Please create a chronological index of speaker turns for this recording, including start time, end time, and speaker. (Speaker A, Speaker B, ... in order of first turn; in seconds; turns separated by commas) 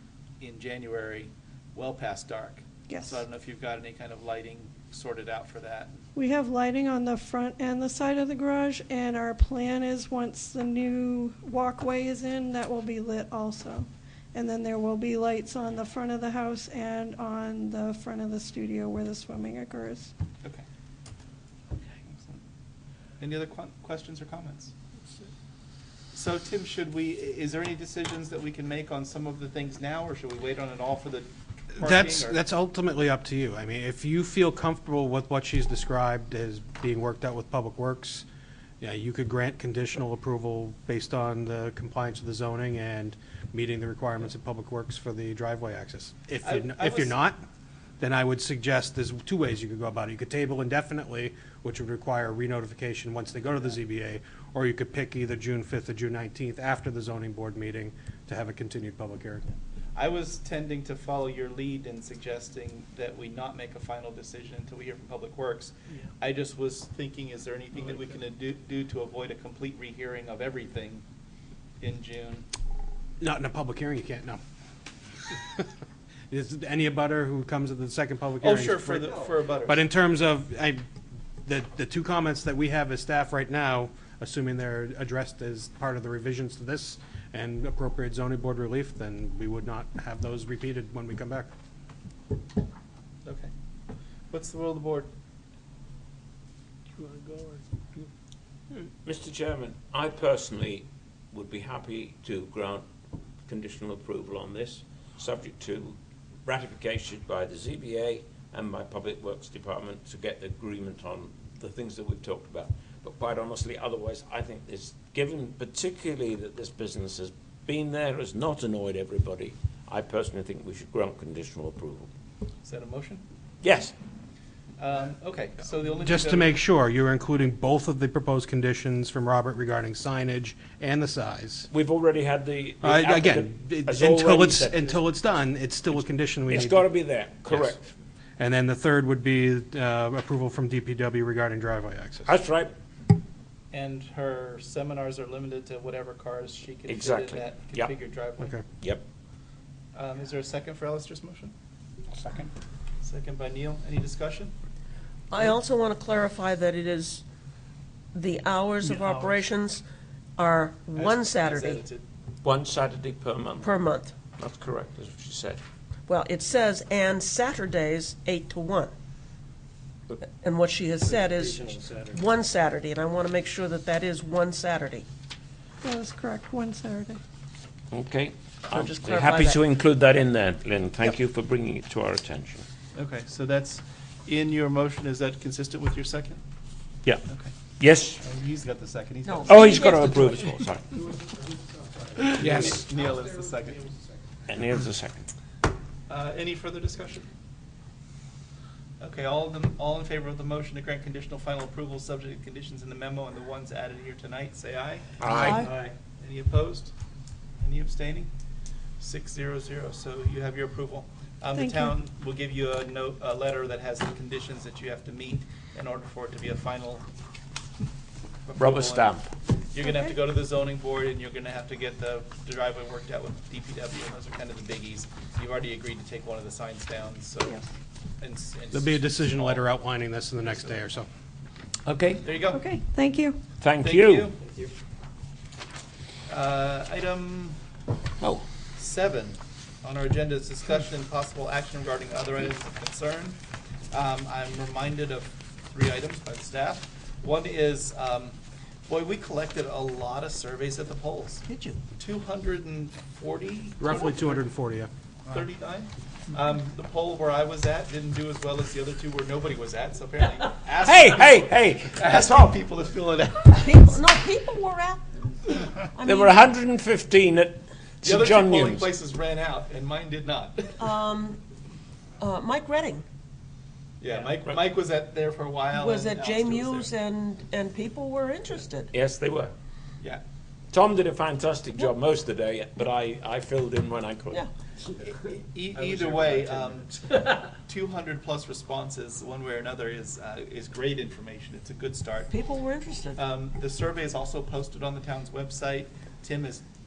Speaker A: 0.4-5.9, Speaker B: 2.9-3.2, Speaker B: 6.1-20.1, Speaker A: 22.0-22.4, Speaker A: 23.2-24.7, Speaker A: 26.1-32.4, Speaker C: 31.8-38.2, Speaker C: 38.8-47.4, Speaker A: 46.4-47.2, Speaker C: 48.0-59.4, Speaker A: 59.9-71.0, Speaker A: 71.8-72.5, Speaker C: 73.2-74.4, Speaker C: 75.3-75.7, Speaker C: 76.3-80.8, Speaker A: 78.4-79.8, Speaker C: 81.4-91.5, Speaker A: 93.2-93.5, Speaker A: 94.3-95.1, Speaker D: 99.0-102.9, Speaker D: 103.5-122.1, Speaker A: 122.6-123.2, Speaker D: 123.6-123.9, Speaker A: 124.8-126.6, Speaker C: 126.0-131.7, Speaker D: 131.7-135.0, Speaker C: 132.8-136.9, Speaker D: 136.5-137.9, Speaker C: 137.4-137.8, Speaker C: 138.4-142.3, Speaker D: 142.2-142.7, Speaker A: 143.7-148.6, Speaker D: 146.9-147.9, Speaker D: 148.8-149.0, Speaker A: 149.9-151.5, Speaker A: 153.0-154.5, Speaker E: 155.3-157.2, Speaker E: 158.1-159.8, Speaker A: 158.8-159.4, Speaker E: 160.4-161.8, Speaker A: 160.9-162.1, Speaker D: 162.4-163.7, Speaker E: 163.6-164.1, Speaker D: 164.3-165.6, Speaker E: 166.1-168.9, Speaker E: 170.2-175.1, Speaker B: 175.8-177.2, Speaker D: 177.9-182.6, Speaker E: 178.7-179.6, Speaker A: 182.9-186.4, Speaker A: 187.3-187.5, Speaker D: 187.8-188.2, Speaker A: 188.2-189.8, Speaker E: 189.2-190.6, Speaker D: 189.5-190.9, Speaker C: 192.2-192.8, Speaker A: 192.3-193.9, Speaker D: 194.5-195.3, Speaker A: 196.1-197.3, Speaker A: 199.0-206.9, Speaker D: 205.2-205.7, Speaker E: 205.3-205.7, Speaker A: 207.6-208.3, Speaker A: 209.0-217.0, Speaker B: 211.5-211.9, Speaker A: 218.4-227.6, Speaker D: 218.6-219.2, Speaker B: 219.8-220.1, Speaker A: 228.2-229.7, Speaker C: 228.7-231.1, Speaker D: 231.8-232.2, Speaker A: 232.2-232.7, Speaker B: 232.5-233.4, Speaker D: 233.6-234.3, Speaker A: 233.8-234.4, Speaker A: 236.3-237.6, Speaker A: 238.8-243.4, Speaker A: 243.9-254.4, Speaker E: 251.5-251.8, Speaker C: 253.8-254.9, Speaker A: 255.2-264.1, Speaker D: 260.8-262.6, Speaker E: 263.5-266.4, Speaker D: 266.0-268.9, Speaker A: 268.0-270.7, Speaker E: 270.8-271.4, Speaker E: 272.2-273.0, Speaker A: 274.0-276.9, Speaker E: 275.7-278.9, Speaker D: 278.9-279.5, Speaker D: 280.7-284.4, Speaker A: 285.0-286.9, Speaker A: 287.5-292.3, Speaker E: 292.3-293.2, Speaker A: 293.2-296.6